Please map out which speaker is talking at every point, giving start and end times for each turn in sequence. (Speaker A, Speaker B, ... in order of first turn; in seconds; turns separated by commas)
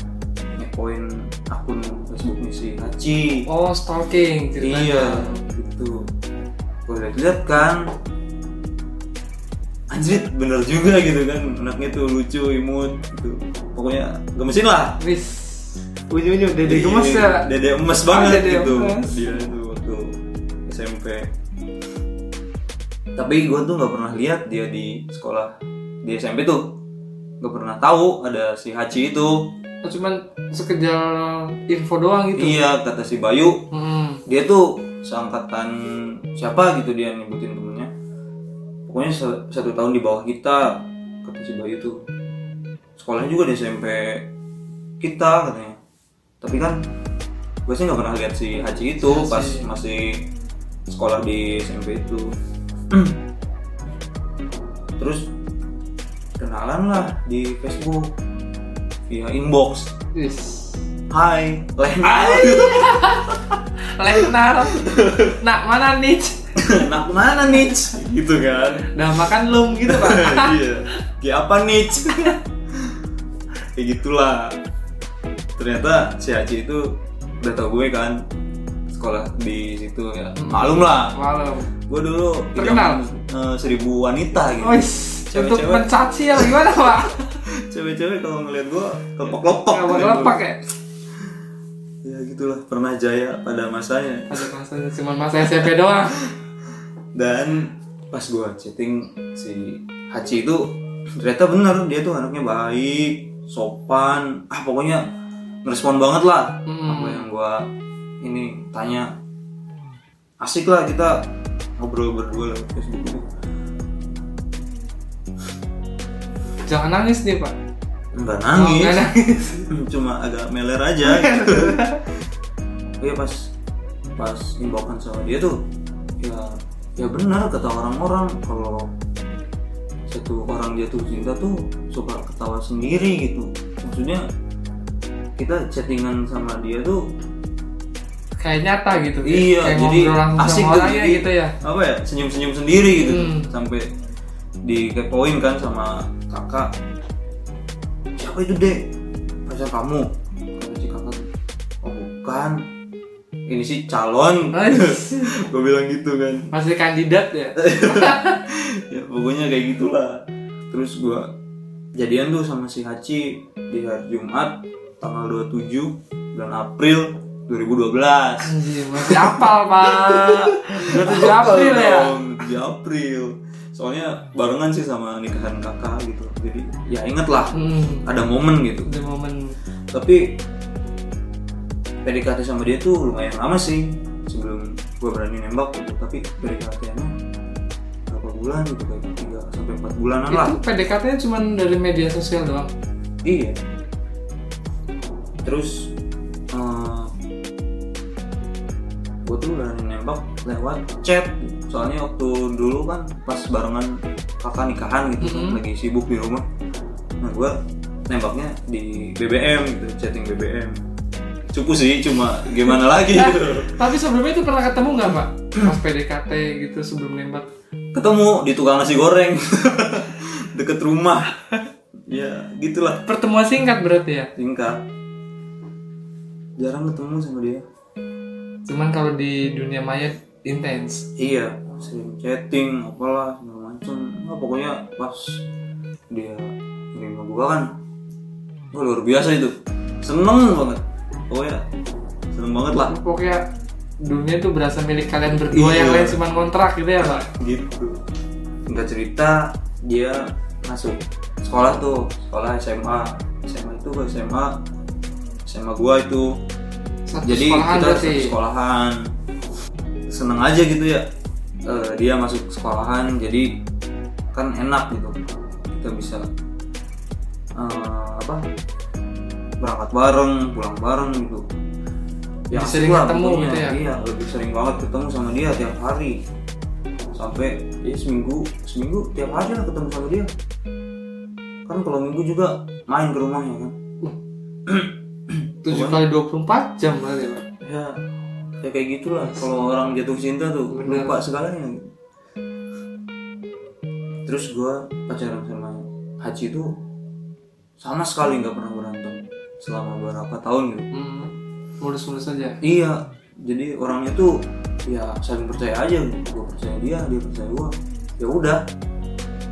Speaker A: 0.6-3.5, Speaker B: 3.5-5.3, Speaker A: 4.6-6.0, Speaker A: 6.9-7.8, Speaker A: 9.9-15.0, Speaker B: 15.0-17.5, Speaker A: 16.6-20.1, Speaker B: 18.1-19.2, Speaker A: 20.7-21.3, Speaker A: 23.2-25.5, Speaker A: 26.0-26.6, Speaker A: 27.4-29.5, Speaker B: 29.8-32.6, Speaker A: 32.4-33.6, Speaker B: 33.7-34.2, Speaker A: 34.3-35.7, Speaker A: 36.4-37.9, Speaker A: 38.9-42.0, Speaker A: 43.0-44.3, Speaker A: 45.0-45.8, Speaker A: 46.4-46.9, Speaker A: 47.7-50.3, Speaker B: 49.0-49.7, Speaker A: 50.9-52.3, Speaker A: 52.9-53.2, Speaker A: 55.0-55.3, Speaker A: 56.4-58.1, Speaker A: 59.1-59.9, Speaker B: 60.1-60.8, Speaker A: 61.1-63.5, Speaker B: 62.1-63.3, Speaker B: 64.0-66.4, Speaker A: 64.6-65.3, Speaker A: 66.6-69.3, Speaker B: 68.9-70.6, Speaker A: 69.9-72.4, Speaker A: 73.8-74.6, Speaker A: 75.6-76.8, Speaker A: 77.4-78.2, Speaker A: 78.9-81.2, Speaker B: 80.4-81.7, Speaker A: 81.9-85.9, Speaker B: 82.5-83.0, Speaker B: 84.6-87.3, Speaker A: 87.1-90.4, Speaker B: 89.7-90.6, Speaker A: 92.0-94.5, Speaker B: 94.3-96.2, Speaker A: 97.2-100.6, Speaker A: 101.2-105.0, Speaker A: 105.7-107.6, Speaker B: 106.7-107.3, Speaker A: 108.2-109.1, Speaker A: 110.4-111.2, Speaker A: 111.8-113.2, Speaker B: 116.7-117.5, Speaker A: 118.1-119.0, Speaker B: 118.5-119.7, Speaker A: 119.7-122.0, Speaker B: 121.1-122.0, Speaker A: 123.0-123.3, Speaker A: 124.2-125.6, Speaker A: 126.2-128.9, Speaker A: 130.1-134.3, Speaker A: 135.4-137.0, Speaker B: 138.4-141.6, Speaker A: 139.2-143.9, Speaker B: 143.0-143.5, Speaker A: 144.7-146.7, Speaker A: 148.2-148.8, Speaker A: 149.5-151.3, Speaker A: 151.8-152.6, Speaker A: 153.5-156.5, Speaker B: 154.5-155.3, Speaker B: 156.5-158.3, Speaker A: 157.6-161.3, Speaker A: 162.0-178.9, Speaker B: 168.4-172.1, Speaker B: 177.5-178.1, Speaker B: 178.9-179.6, Speaker A: 179.9-180.2, Speaker A: 182.1-187.2, Speaker A: 188.1-190.6, Speaker B: 190.3-192.7, Speaker A: 193.2-193.6, Speaker A: 195.4-195.9, Speaker A: 196.5-197.1, Speaker A: 199.2-206.4, Speaker B: 205.2-205.6, Speaker A: 207.2-207.6, Speaker A: 208.1-210.8, Speaker A: 211.5-213.8, Speaker B: 213.1-217.5, Speaker A: 217.9-221.3, Speaker A: 222.1-223.0, Speaker B: 223.1-224.3, Speaker A: 224.4-224.8, Speaker A: 226.6-227.6, Speaker B: 228.7-231.1, Speaker A: 231.2-235.4, Speaker A: 236.1-237.7, Speaker A: 238.7-241.7, Speaker A: 242.3-243.0, Speaker B: 242.7-243.4, Speaker B: 244.0-247.2, Speaker A: 245.5-246.2, Speaker A: 247.1-248.0, Speaker A: 248.7-254.6, Speaker A: 255.5-256.3, Speaker B: 257.1-258.3, Speaker A: 257.2-259.0, Speaker A: 260.1-261.0, Speaker A: 261.7-263.5, Speaker A: 264.3-265.2, Speaker A: 265.7-266.2, Speaker A: 267.6-268.4, Speaker A: 269.6-271.4, Speaker A: 272.5-276.2, Speaker B: 272.5-273.9, Speaker A: 277.1-280.3, Speaker A: 281.7-283.8, Speaker B: 285.6-287.4, Speaker A: 285.7-286.0, Speaker A: 287.4-288.0, Speaker A: 288.6-291.8, Speaker B: 290.7-291.2, Speaker A: 294.3-296.7, Speaker A: 297.8-300.9, Speaker B: 300.9-302.6, Speaker A: 302.6-304.3, Speaker A: 304.9-308.6